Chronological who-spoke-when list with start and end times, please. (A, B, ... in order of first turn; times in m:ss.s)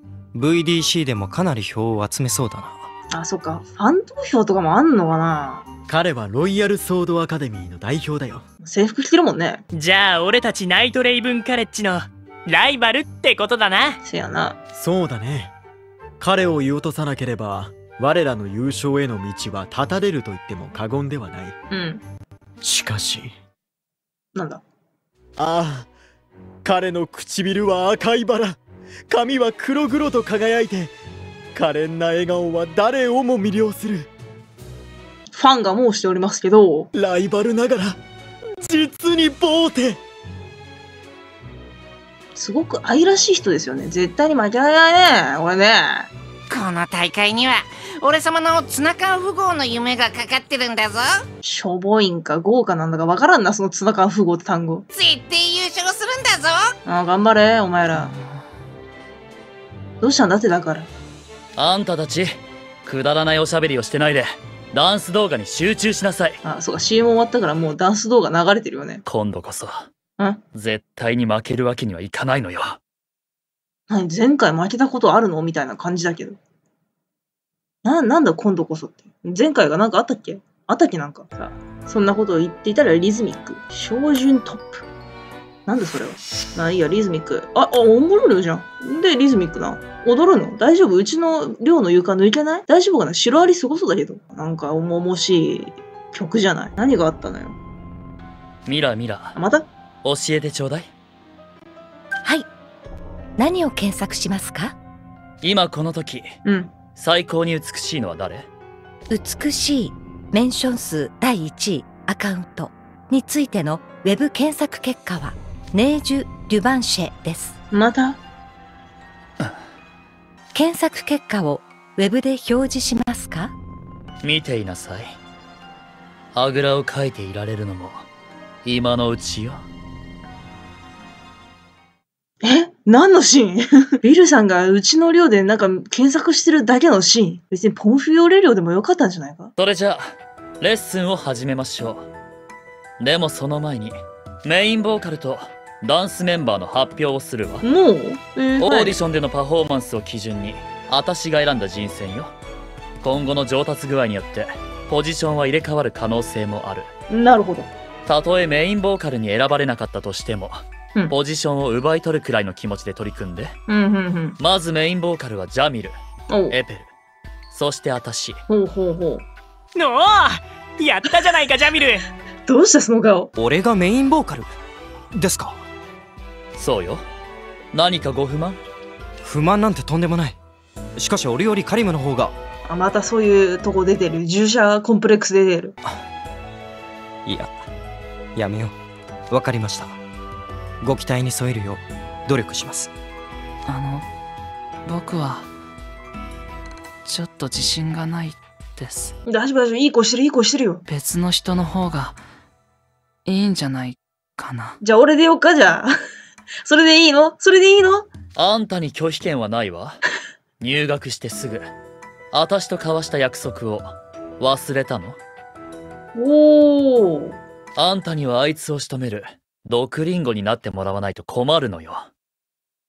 0:00.3-0:02.9 A
0:03.1-0:05.7 B
0:05.9-0:08.4 C
0:08.6-0:09.6 B
0:09.7-0:14.0 D
0:14.0-0:14.6 B
0:14.7-0:15.5 C
0:16.2-0:21.6 C
0:21.7-0:22.0 B
0:22.6-0:23.3 C
0:24.4-0:24.6 B
0:25.4-0:25.9 C
0:26.6-0:30.9 C
0:31.6-0:34.1 C
0:35.3-0:36.9 B
0:36.9-0:38.0 C
0:38.6-0:40.0 C
0:42.4-0:46.1 B
0:46.5-0:51.2 E
0:51.4-0:54.8 B
0:54.9-0:56.7 E
0:56.9-0:58.2 B
1:00.0-1:00.9 B
1:01.6-1:06.4 F
1:06.4-1:09.0 B
1:09.0-1:09.9 F
1:10.5-1:12.8 F
1:13.9-1:16.4 B
1:17.8-1:24.8 B
1:25.6-1:37.6 B
1:38.6-1:39.4 F
1:39.4-1:39.7 B
1:40.0-1:40.9 F
1:43.4-1:44.8 G
1:45.4-1:46.3 F
1:46.4-1:46.7 B
1:47.0-1:48.5 F
1:49.1-1:57.6 G
1:57.7-1:58.2 B
2:00.5-2:03.5 G
2:04.2-2:05.2 F
2:06.3-2:08.1 F
2:08.6-2:09.6 F
2:12.4-2:19.5 B
2:19.6-2:22.1 F
2:23.0-2:27.6 F
2:27.6-2:29.0 B
2:28.6-2:32.3 F
2:33.0-2:36.9 F
2:37.1-2:37.7 B
2:38.1-2:43.6 F
2:43.7-2:44.4 B
2:44.4-2:46.0 F
2:46.3-2:46.6 B
2:46.5-2:46.9 F
2:47.5-2:48.4 F
2:48.5-2:49.2 B
2:49.8-2:52.0 D
2:52.5-2:53.3 B
2:53.4-2:54.5 A
2:55.1-2:55.6 A
2:56.6-2:57.0 F
2:57.7-2:58.6 F
2:59.2-3:00.4 A
3:01.0-3:02.4 A
3:02.6-3:05.8 B
3:07.2-3:07.5 A
3:08.4-3:08.8 A
3:09.3-3:10.0 A
3:10.8-3:12.9 A
3:13.6-3:14.1 H
3:14.8-3:15.5 H
3:17.0-3:19.1 H
3:19.2-3:20.8 B
3:20.9-3:22.2 H
3:23.2-3:24.8 H
3:24.8-3:25.9 B
3:26.6-3:28.1 B
3:28.4-3:30.0 F
3:30.6-3:31.7 F
3:32.3-3:35.2 F
3:36.1-3:37.4 B
3:37.8-3:42.1 F